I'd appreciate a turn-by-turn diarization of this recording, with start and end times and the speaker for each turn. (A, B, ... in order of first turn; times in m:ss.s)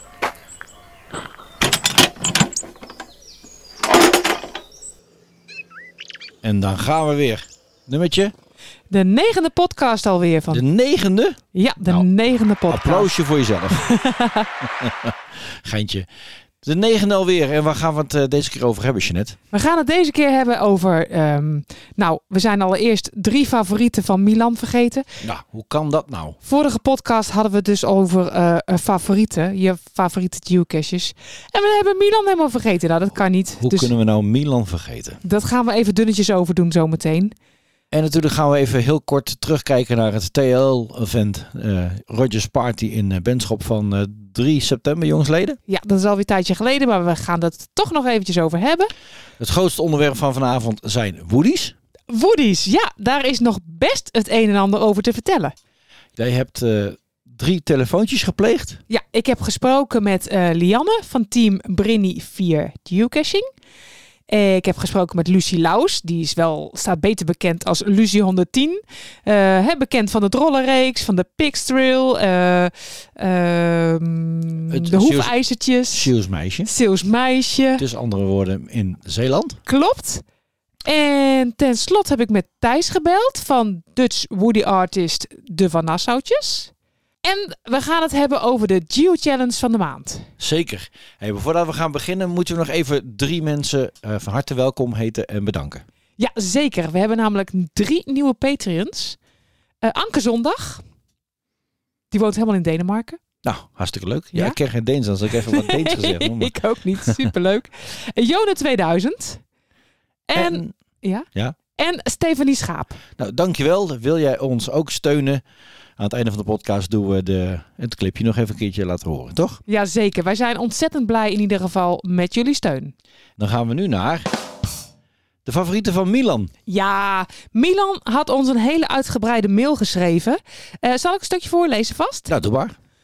0:06.4-0:08.3 A
0:08.9-0:10.6 B
0:10.5-0:12.1 A
0:11.5-0:13.1 B
0:12.7-0:13.9 A
0:13.8-0:14.5 B
0:14.8-0:16.1 A
0:16.6-0:19.4 A
0:19.5-0:25.1 B
0:25.2-0:26.4 A
0:26.4-0:33.9 B
0:33.6-0:35.2 A
0:35.2-0:37.3 B
0:37.9-0:45.6 A
0:45.7-0:48.9 B
0:49.4-0:51.7 A
0:52.1-0:55.5 B
0:56.2-0:58.8 A
0:58.9-1:03.5 B
1:04.3-1:16.1 B
1:14.7-1:15.3 A
1:15.9-1:16.7 A
1:16.6-1:17.8 B
1:17.8-1:19.6 A
1:19.6-1:20.2 B
1:20.8-1:26.7 B
1:27.2-1:30.3 B
1:30.4-1:35.8 A
1:36.2-1:39.2 B
1:39.8-1:40.8 B
1:42.1-1:43.2 B
1:43.4-1:47.2 A
1:45.4-1:49.4 B
1:50.3-1:53.0 B
1:50.3-1:50.7 A
1:53.2-1:55.4 A
1:56.0-1:59.6 A
1:59.7-2:02.9 B
2:03.4-2:04.2 A
2:05.4-2:06.5 A
2:06.7-2:12.3 B
2:12.3-2:12.8 A